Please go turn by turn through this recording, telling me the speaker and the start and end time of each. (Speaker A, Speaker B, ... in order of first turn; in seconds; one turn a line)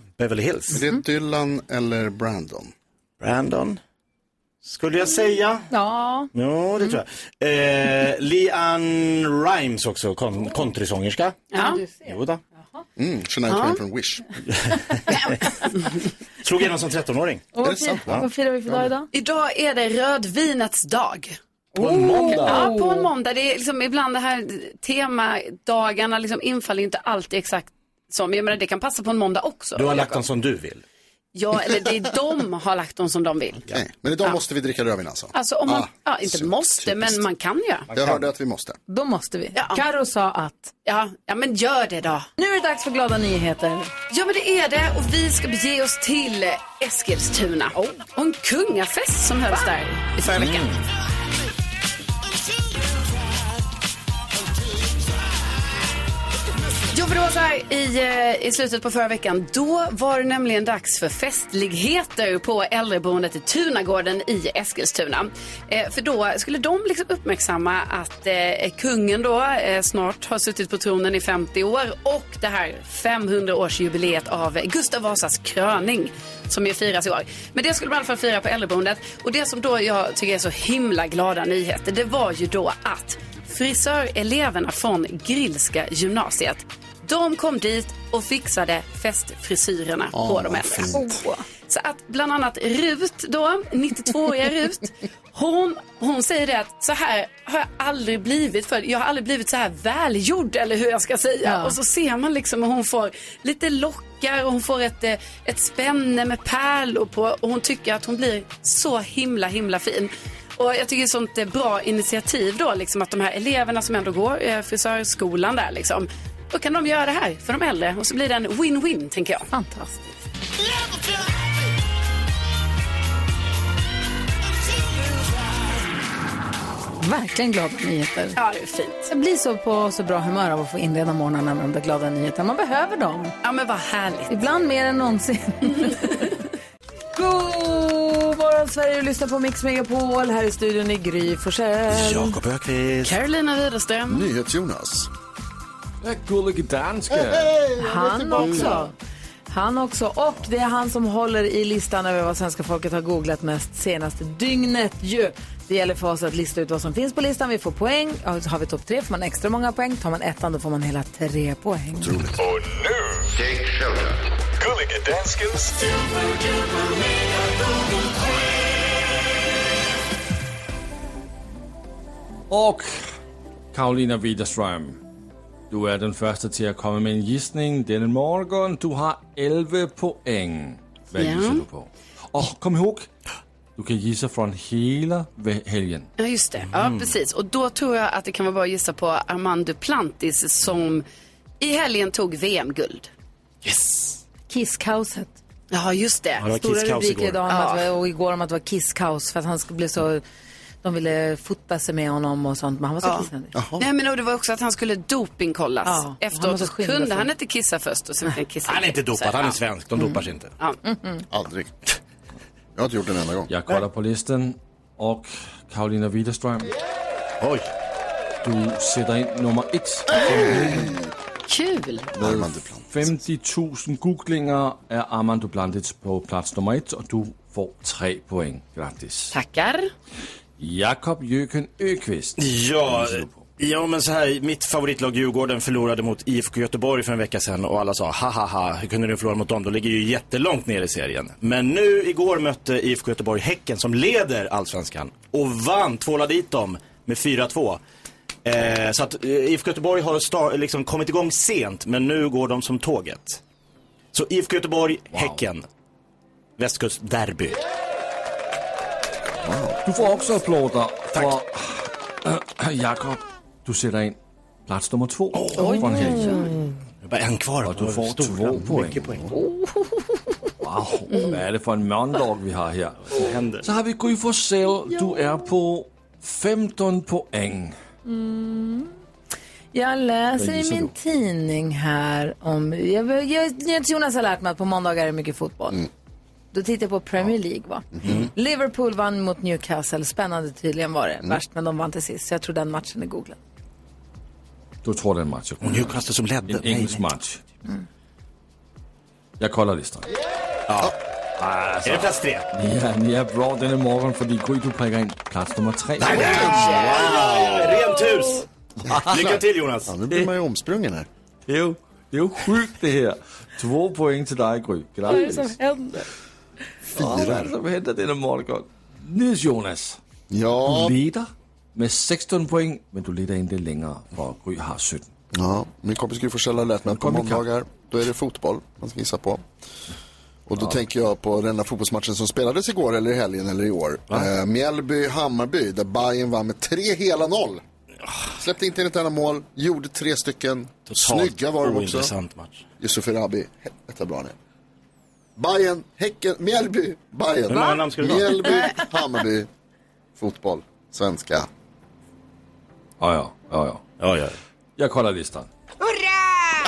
Speaker A: 0.2-0.8
Speaker B: 0.7-2.7
Speaker A: 3.2-3.8
Speaker A: 4.6-5.7
Speaker C: 5.7-6.3
Speaker A: 6.3-11.4
Speaker D: 11.5-11.8
Speaker C: 11.6-12.8
Speaker A: 12.1-12.4
Speaker B: 13.0-14.2
Speaker D: 13.5-13.8
Speaker A: 14.6-15.1
Speaker A: 16.4-17.4
Speaker C: 17.5-19.1
Speaker B: 17.6-18.9
Speaker D: 19.1-21.4
Speaker C: 21.8-23.1
Speaker A: 21.8-22.7
Speaker D: 21.9-30.2
Speaker A: 29.8-30.8
Speaker D: 31.3-33.7
Speaker B: 33.7-37.2
Speaker D: 35.3-37.9
Speaker A: 37.9-38.2
Speaker B: 37.9-38.8
Speaker C: 38.9-40.7
Speaker D: 39.5-39.8
Speaker D: 40.9-42.3
Speaker C: 42.4-43.9
Speaker D: 44.1-50.8
Speaker A: 50.4-50.8
Speaker D: 56.9-119.5
Speaker B: 90.1-91.2
Speaker C: 91.0-91.4
Speaker C: 101.5-101.8
Speaker C: 119.5-120.2
Speaker C: 127.0-128.4
Speaker D: 128.4-129.1
Speaker C: 129.1-133.3
Speaker D: 133.4-134.3
Speaker C: 134.3-136.3
Speaker C: 137.2-142.4
Speaker A: 141.9-143.2
Speaker D: 143.0-144.3
Speaker B: 144.1-145.1
Speaker E: 146.0-147.6
Speaker B: 147.1-148.8
Speaker C: 147.8-148.9
Speaker D: 148.4-148.7
Speaker C: 149.5-162.2
Speaker B: 162.0-162.4
Speaker F: 162.4-163.3
Speaker B: 163.5-164.0
Speaker F: 164.6-166.0
Speaker E: 172.5-173.1
Speaker E: 173.7-175.0
Speaker E: 175.7-183.1
Speaker D: 181.2-181.7
Speaker E: 183.8-186.1
Speaker D: 186.2-191.0
Speaker A: 186.7-187.1
Speaker D: 191.6-193.1
Speaker A: 193.6-194.2
Speaker C: 194.5-195.3
Speaker D: 195.7-196.5
Speaker A: 196.4-197.4
Speaker C: 196.5-200.2
Speaker D: 197.5-197.9
Speaker C: 200.8-203.5
Speaker D: 203.0-203.3
Speaker B: 203.5-203.9
Speaker D: 203.8-209.6
Speaker C: 205.8-207.3
Speaker A: 208.7-210.5
Speaker C: 210.8-211.2
Speaker B: 211.3-211.7
Speaker B: 212.8-213.5
Speaker E: 213.5-216.7
Speaker A: 217.4-217.7
Speaker E: 218.4-220.9
Speaker B: 220.2-221.1
Speaker D: 221.5-222.1
Speaker B: 222.2-223.1
Speaker E: 222.2-229.3
Speaker D: 229.3-229.9
Speaker E: 230.6-233.4
Speaker A: 232.4-247.8
Speaker A: 248.4-253.4
Speaker A: 254.1-255.7
Speaker E: 255.1-255.4
Speaker A: 256.6-257.6
Speaker B: 259.4-259.8
Speaker E: 259.9-266.4
Speaker A: 265.3-265.8
Speaker C: 265.6-266.5
Speaker D: 265.7-266.0
Speaker A: 267.0-269.2
Speaker E: 267.6-269.2
Speaker C: 269.4-270.4
Speaker E: 270.6-277.8
Speaker A: 273.1-273.7
Speaker C: 278.1-278.9
Speaker C: 279.7-285.9
Speaker E: 280.4-280.9
Speaker C: 286.5-293.4
Speaker E: 294.8-297.4
Speaker A: 295.6-297.0
Speaker E: 299.4-300.1
Speaker A: 300.7-300.9
Speaker E: 301.4-306.6
Speaker A: 301.9-302.5
Speaker A: 306.0-308.4
Speaker B: 306.0-307.8
Speaker C: 307.8-308.4
Speaker B: 308.8-311.1
Speaker A: 309.1-309.9
Speaker E: 311.5-315.6
Speaker C: 315.1-316.1
Speaker E: 316.9-320.0
Speaker B: 317.0-317.5
Speaker B: 320.3-321.0
Speaker E: 320.7-325.1
Speaker B: 325.3-329.4
Speaker E: 326.9-327.4
Speaker B: 330.5-337.6
Speaker B: 338.4-342.1
Speaker A: 340.9-342.6
Speaker B: 342.8-344.3
Speaker B: 345.4-349.5
Speaker A: 347.5-348.6
Speaker B: 350.2-351.5
Speaker E: 353.0-353.8
Speaker A: 354.0-354.4
Speaker E: 354.8-355.5